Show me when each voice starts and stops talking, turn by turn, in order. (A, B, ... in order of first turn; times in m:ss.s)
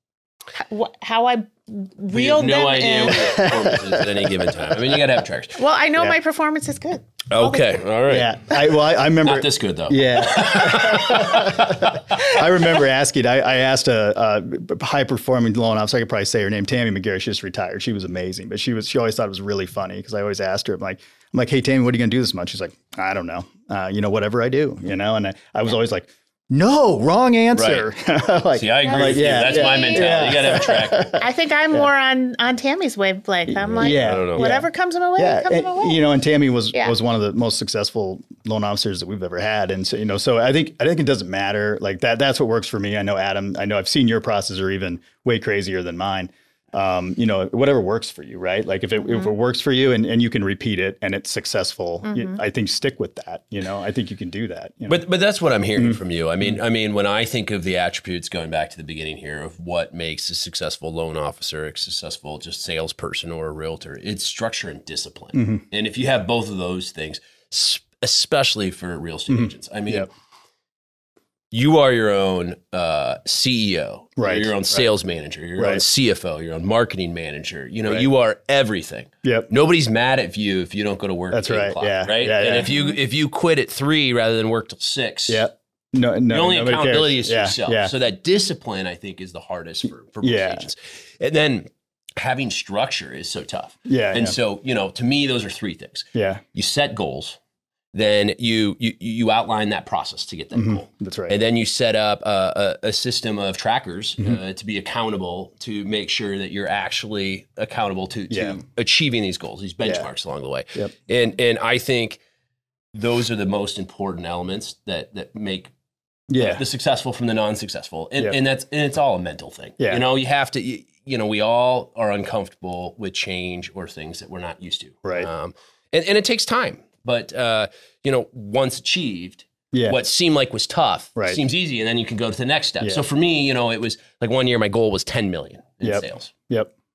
0:00.6-0:03.5 A
0:02.1-0:05.6 B
0:03.3-0:05.0 C
0:05.6-0:07.7 A
0:07.3-0:12.4 B
0:08.1-0:31.8 C
0:27.5-0:27.8 B
0:28.5-0:31.2 B
0:28.8-0:30.6 A
0:31.2-0:36.0 A
0:33.5-0:34.5 B
0:33.8-0:55.0 C
0:49.0-0:49.3 A
0:52.0-0:52.4 A
0:54.9-1:10.1 B
0:55.8-0:56.6 C
1:05.3-1:05.6 C
1:09.3-1:10.1 C
1:11.5-1:25.5 B
1:14.2-1:14.9 C
1:15.6-1:15.8 C
1:19.2-1:19.5 C
1:21.3-1:22.7 C
1:22.7-1:23.0 A
1:25.3-1:27.9 C
1:26.3-1:37.4 B
1:30.2-1:30.7 C
1:33.9-1:34.4 C
1:36.1-1:36.4 C
1:37.9-1:52.2 B
1:40.5-1:41.4 C
1:48.3-1:48.6 C
1:52.9-1:55.7 B
1:56.3-1:56.6 C
1:56.3-2:16.3 B
2:09.7-2:10.0 C
2:15.8-2:16.7 C